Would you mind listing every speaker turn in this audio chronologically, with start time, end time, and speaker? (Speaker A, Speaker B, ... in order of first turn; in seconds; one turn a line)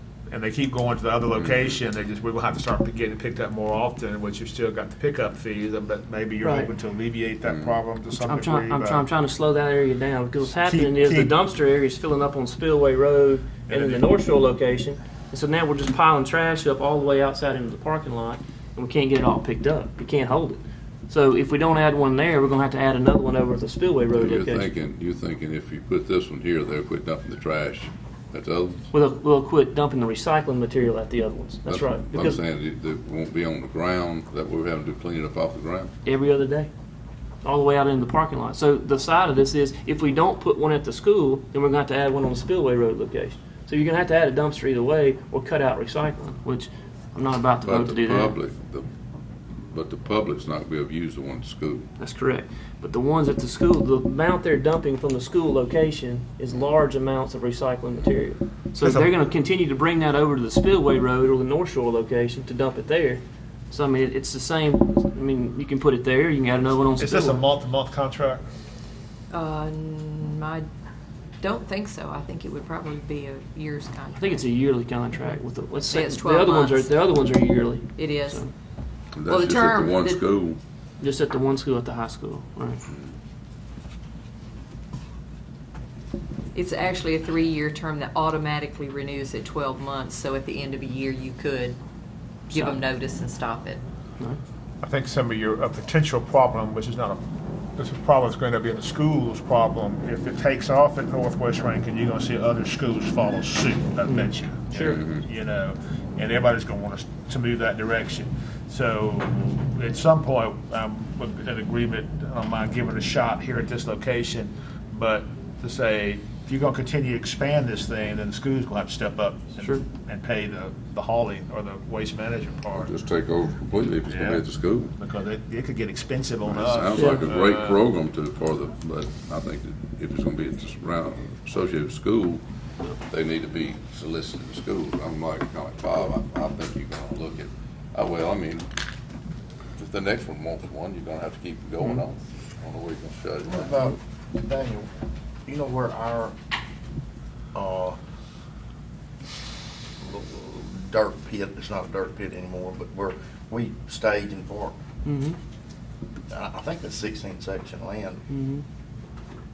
Speaker A: 0.3-9.0
Speaker B: 1.4-1.8
Speaker C: 6.4-6.7
Speaker B: 7.5-7.8
Speaker C: 8.2-24.7
Speaker A: 10.5-11.3
Speaker A: 13.7-14.0
Speaker B: 24.1-28.9
Speaker C: 28.9-32.4
Speaker B: 31.6-35.9
Speaker C: 36.0-36.7
Speaker C: 37.4-48.4
Speaker B: 47.6-48.9
Speaker B: 49.6-51.9
Speaker C: 52.0-67.4
Speaker A: 58.8-59.1
Speaker A: 67.0-68.5
Speaker D: 69.3-70.7
Speaker D: 71.4-74.5
Speaker C: 74.2-78.5
Speaker D: 75.8-77.0
Speaker D: 78.0-78.4
Speaker B: 79.2-80.6
Speaker D: 79.2-80.2
Speaker C: 81.0-82.8
Speaker B: 82.9-83.2
Speaker D: 86.5-91.8
Speaker D: 92.5-93.8
Speaker A: 94.8-97.2
Speaker A: 97.8-122.9
Speaker C: 104.1-105.0
Speaker B: 104.8-105.2
Speaker B: 122.7-124.9
Speaker A: 124.1-124.4
Speaker A: 125.0-127.8
Speaker B: 126.5-132.4
Speaker B: 133.1-138.7
Speaker B: 139.8-143.7
Speaker E: 143.5-144.9
Speaker E: 145.5-146.3
Speaker E: 147.5-148.0
Speaker E: 150.0-154.7
Speaker C: 155.1-155.4
Speaker E: 156.3-158.2
Speaker C: 158.3-158.6